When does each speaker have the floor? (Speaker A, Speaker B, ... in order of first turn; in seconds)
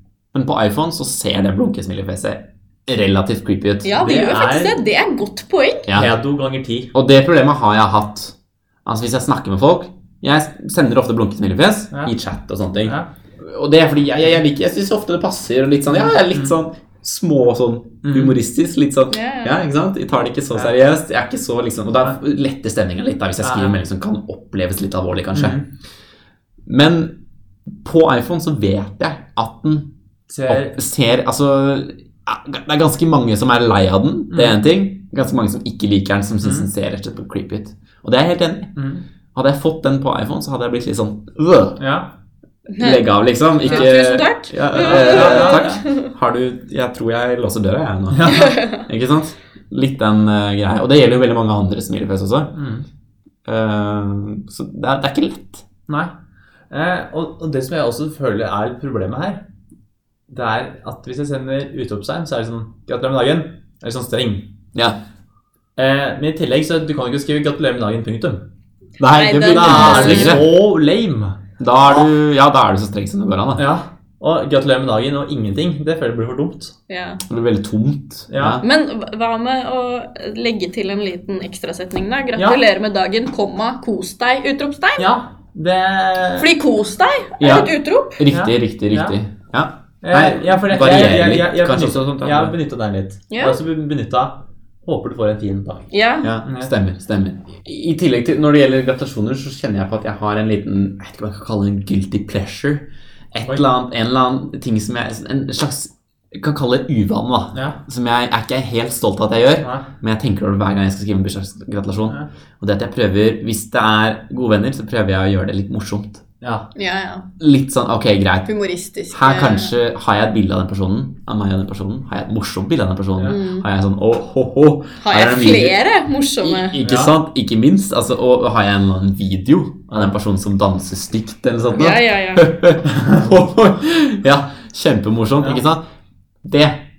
Speaker A: 0.3-4.0, 6.9-8.3, 8.9-25.6, 26.7-27.2, 27.8-29.9, 30.5-38.7, 39.3-41.8, 42.8-52.5, 53.5-55.6, 69.0-70.5, 71.6-73.7, 77.3-78.6, 87.4-92.5, 96.2-116.2, 117.4-118.5, 119.1-125.8, 126.4-135.8, 136.4-136.8
Speaker B: 3.8-5.9, 19.1-19.6, 42.7-43.1, 43.6-46.1, 48.3-48.8, 69.0-70.5, 76.9-77.2, 78.6-85.1, 86.4-88.2, 93.3-93.6, 95.9-96.4, 116.7-117.3, 118.5-119.7, 123.3-123.7, 125.0-126.8, 131.7-132.5
Speaker C: 3.9-4.8, 5.9-6.9, 15.9-16.6, 18.0-18.3, 23.4-23.8, 25.3-25.6, 30.3-30.8, 34.3-34.6, 36.4-36.7, 38.8-39.0, 41.8-42.1, 43.7-43.9, 44.5-45.8, 48.1-48.6, 52.5-52.8, 56.7-59.4, 60.3-64.5, 65.8-68.4, 69.5-71.4, 73.5-76.7, 78.3-78.6, 82.4-82.6, 85.0-86.5, 88.3-89.2, 90.0-95.9, 96.4-96.7, 107.5-107.8, 109.6-109.9, 116.4-116.7, 126.8-127.1, 132.9-133.3